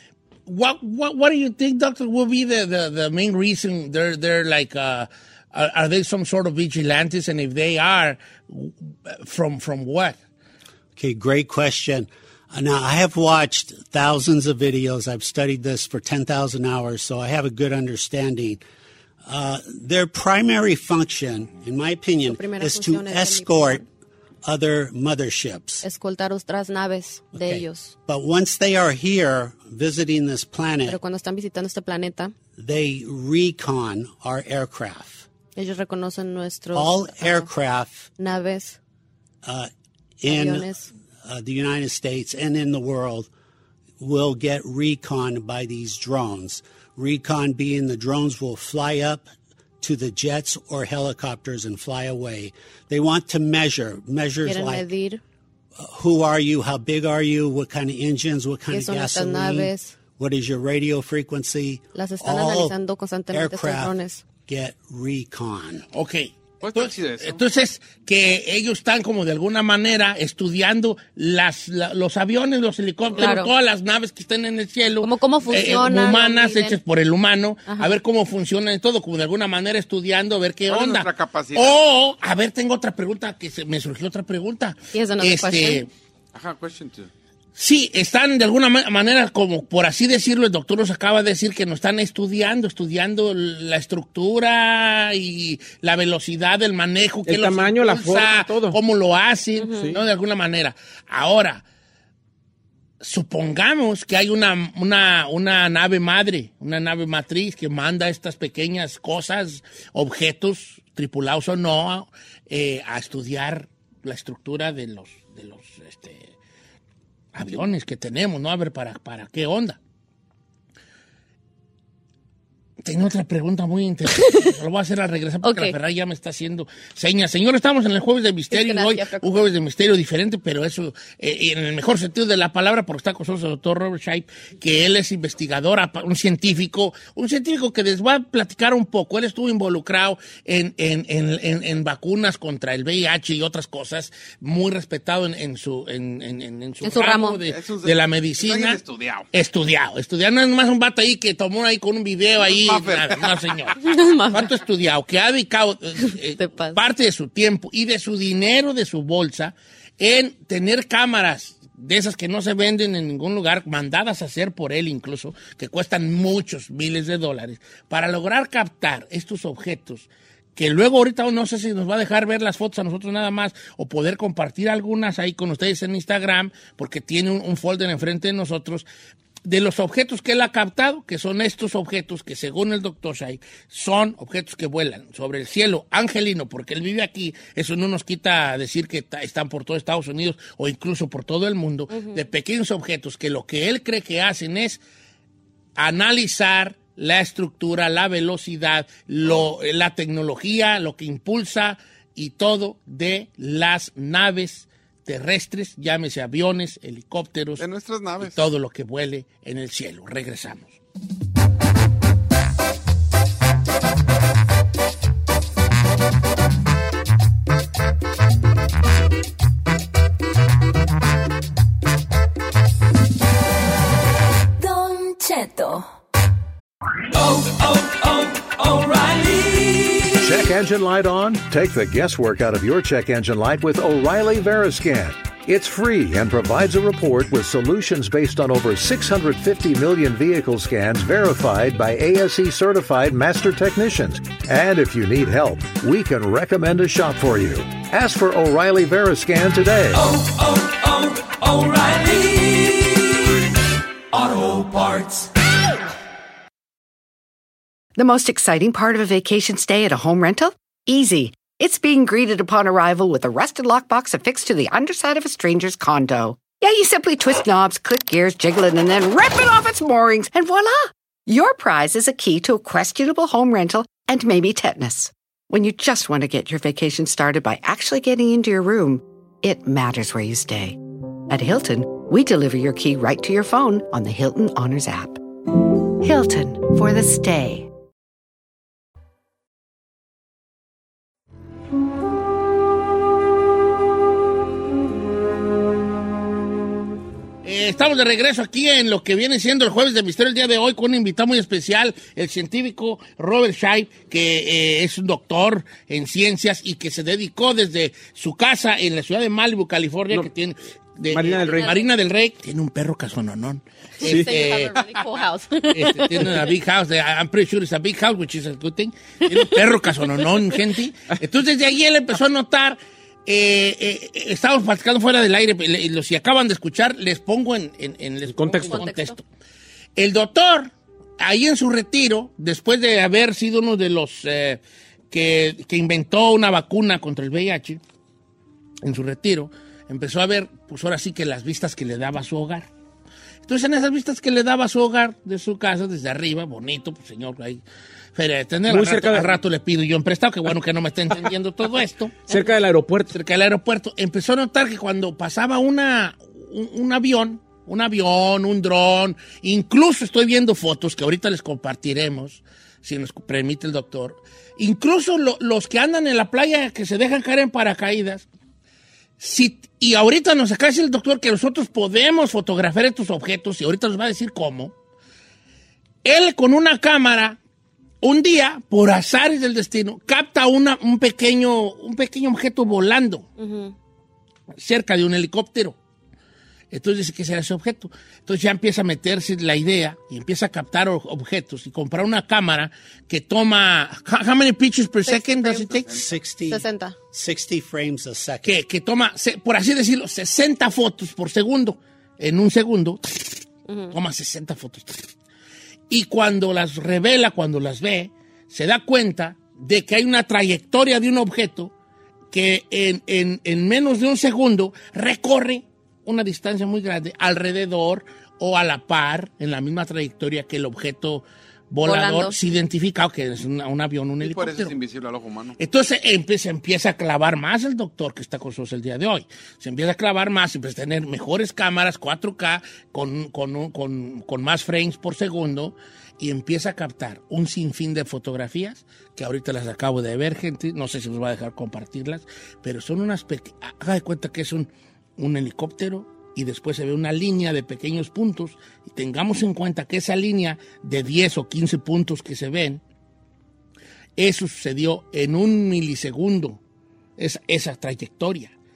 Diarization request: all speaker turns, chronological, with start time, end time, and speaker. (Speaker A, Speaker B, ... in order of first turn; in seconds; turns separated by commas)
Speaker A: 0.5-10.2, Speaker B: 10.9-18.6, Speaker B: 19.2-23.8, Speaker C: 22.3-23.8, Speaker B: 24.4-25.8, Speaker C: 25.8-27.9, Speaker B: 27.3-31.0, Speaker C: 30.9-32.3, Speaker B: 32.6-35.3, Speaker C: 35.5-37.5, Speaker B: 36.7-38.1, Speaker C: 38.2-38.8, Speaker B: 39.4-40.7, Speaker C: 40.3-40.9, Speaker B: 41.2-43.3, Speaker B: 44.0-54.9, Speaker C: 54.4-55.2, Speaker B: 55.8-62.8, Speaker C: 58.7-59.9, Speaker C: 61.9-64.2, Speaker B: 63.3-65.8, Speaker A: 65.9-85.9, Speaker D: 66.6-67.4, Speaker C: 73.2-73.5, Speaker C: 75.0-76.8, Speaker D: 80.7-81.8, Speaker C: 84.9-85.8, Speaker D: 86.3-87.1, Speaker A: 87.5-101.6, Speaker E: 97.2-98.8, Speaker C: 99.6-99.9, Speaker A: 103.0-116.3, Speaker A: 117.3-119.8, Speaker A: 122.8-148.8, Speaker C: 124.2-124.5, Speaker C: 125.4-125.7, Speaker C: 128.5-129.4, Speaker C: 146.8-147.4, Speaker D: 147.5-149.2, Speaker A: 149.3-178.9, Speaker D: 152.5-153.7, Speaker C: 153.8-154.5, Speaker C: 156.0-156.8, Speaker A: 179.4-194.8, Speaker C: 191.9-192.2, Speaker A: 195.8-207.7, Speaker D: 207.6-208.4, Speaker A: 208.2-210.7, Speaker F: 224.6-225.9, Speaker F: 227.1-230.3, Speaker G: 230.2-250.1, Speaker F: 250.0-253.1, Speaker F: 254.1-255.3, Speaker H: 257.9-280.8, Speaker H: 281.3-285.2, Speaker H: 286.0-287.7, Speaker A: 297.4-314.7, Speaker E: 311.1-311.7, Speaker C: 311.3-311.8, Speaker C: 314.0-316.5, Speaker E: 314.0-314.3, Speaker A: 315.7-329.2, Speaker E: 328.2-328.8, Speaker C: 328.7-329.1, Speaker A: 329.9-334.6, Speaker A: 335.1-337.8, Speaker A: 338.8-342.7, Speaker A: 343.4-347.6, Speaker A: 348.1-352.3, Speaker E: 348.7-349.4, Speaker E: 352.3-353.1, Speaker A: 353.1-368.2, Speaker A: 369.2-374.7, Speaker A: 376.0-377.4, Speaker A: 378.0-383.3, Speaker C: 383.4-383.7, Speaker A: 384.5-385.8, Speaker A: 386.7-396.0, Speaker C: 395.1-395.8, Speaker B: 395.9-398.6, Speaker C: 396.5-396.9, Speaker A: 398.4-405.1, Speaker C: 403.7-403.9, Speaker A: 405.9-411.7, Speaker A: 412.3-424.7, Speaker C: 421.8-422.3, Speaker D: 424.2-425.6, Speaker A: 425.6-452.8, Speaker A: 454.2-456.6, Speaker A: 457.2-458.5